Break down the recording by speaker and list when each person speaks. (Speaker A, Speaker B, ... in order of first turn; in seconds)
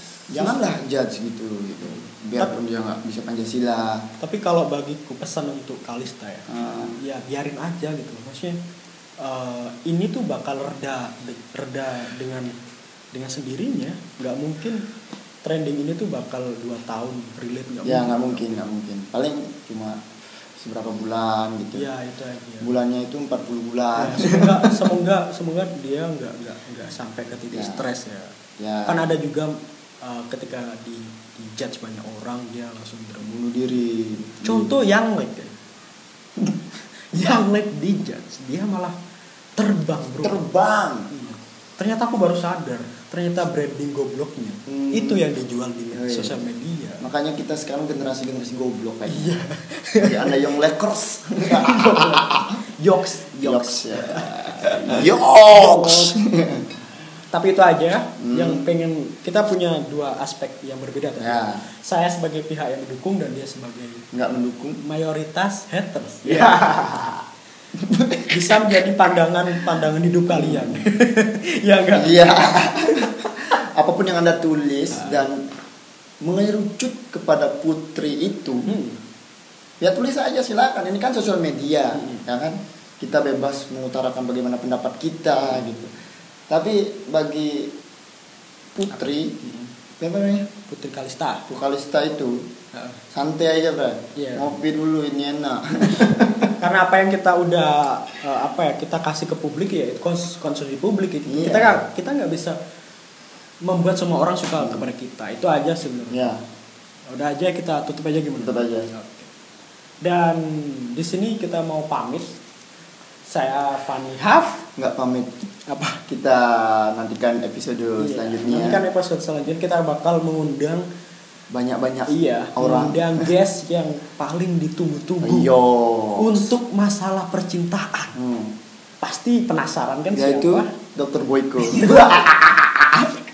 Speaker A: 0.3-0.6, 4.2-8.6, 9.2-12.5, 13.1-14.8, 15.4-18.6, 21.7-22.7, 24.0-28.4, 28.9-33.3, 34.4-35.6, 37.1-39.0, 39.6-40.5, 41.1-47.0, 49.1-50.4, 51.4-56.2, 57.3-64.1, 64.8-67.1, 68.3-72.4, 74.9-75.2, 78.7-79.0, 82.0-82.2, 89.4-89.7, 90.7-91.5, 92.7-93.0, 94.2-94.5, 96.6-102.6, 103.6-106.3, 107.1-109.3, 110.0-112.3, 113.3-114.6, 115.7-116.0, 118.0-120.9, 122.1-125.5, 126.2-128.2, 129.0-130.7, 131.7-132.2
Speaker B: 0.3-4.1, 6.5-7.0, 17.8-20.0, 20.6-21.9, 22.6-24.8, 27.5-27.8, 28.6-29.0, 33.2-34.8, 40.2-41.1, 44.7-45.2, 45.9-46.4, 47.0-49.3, 50.0-52.6, 53.4-56.7, 58.2-58.7, 61.2-61.6, 64.1-64.8, 66.2-67.2, 67.7-68.4, 70.3-70.8, 71.9-75.4, 76.2-78.7, 79.8-85.9, 86.5-87.7, 88.8-89.4, 90.0-90.5, 91.5-92.5, 93.1-96.5, 101.3-101.8, 104.6-104.8, 106.1-106.4, 108.4-108.9, 114.8-115.3, 116.1-118.8, 121.5-123.3, 125.2-126.5, 128.2-128.6, 130.1-133.2